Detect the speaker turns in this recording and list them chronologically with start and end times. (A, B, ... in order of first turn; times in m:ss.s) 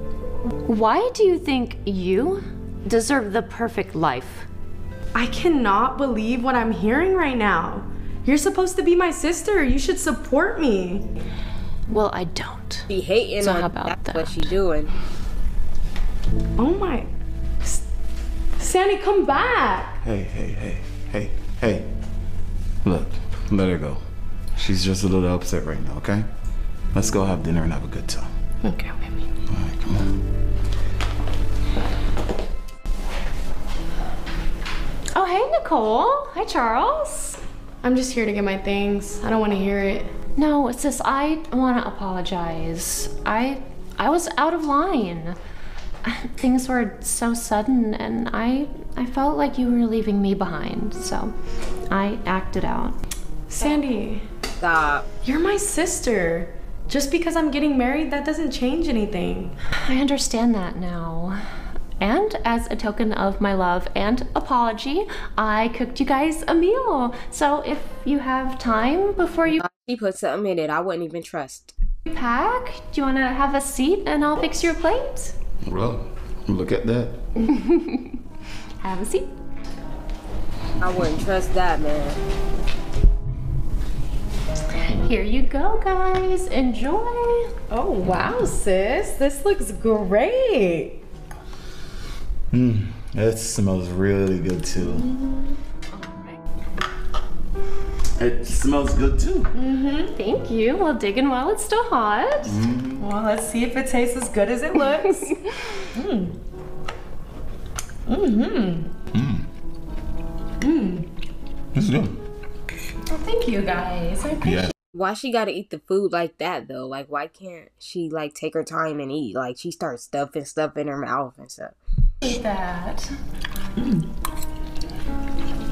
0:00.7-0:04.5 A
0:05.1-0:11.1 B
0:11.9-0:12.9 A
0:12.9-0:14.9 C
0:13.4-0:14.6 A
0:16.6-0:17.1 B
0:18.6-0:20.0 B
0:20.0-0:21.9 D
0:22.8-0:24.0 D
0:24.6-0:26.2 D
0:26.9-0:28.3 D
0:28.6-0:29.2 B
0:29.5-0:30.2 D
0:35.1-0:37.4 A
0:37.8-0:40.1 B
0:40.4-0:45.4 A
0:46.0-0:51.3 A
0:51.9-0:53.0 A
0:53.5-0:54.2 B
0:54.6-0:55.1 C
0:55.2-0:59.6 B
0:59.8-1:01.4 A
1:02.0-1:09.6 A
1:09.6-1:11.8 C
1:12.1-1:15.4 A
1:15.6-1:17.2 D
1:17.4-1:18.1 A
1:18.8-1:19.3 A
1:20.8-1:22.2 C
1:24.8-1:27.5 A
1:27.7-1:31.0 B
1:32.5-1:35.1 D
1:35.2-1:35.5 B
1:38.2-1:39.5 D
1:39.5-1:40.1 B
1:40.1-1:42.6 A
1:42.5-1:43.0 D
1:43.0-1:46.4 B
1:48.1-1:48.9 B
1:49.1-1:49.5 D
1:50.6-1:51.1 B
1:51.7-1:52.2 D
1:53.1-1:54.7 A
1:54.4-1:54.7 D
1:54.9-2:01.8 C
2:02.2-2:03.1 A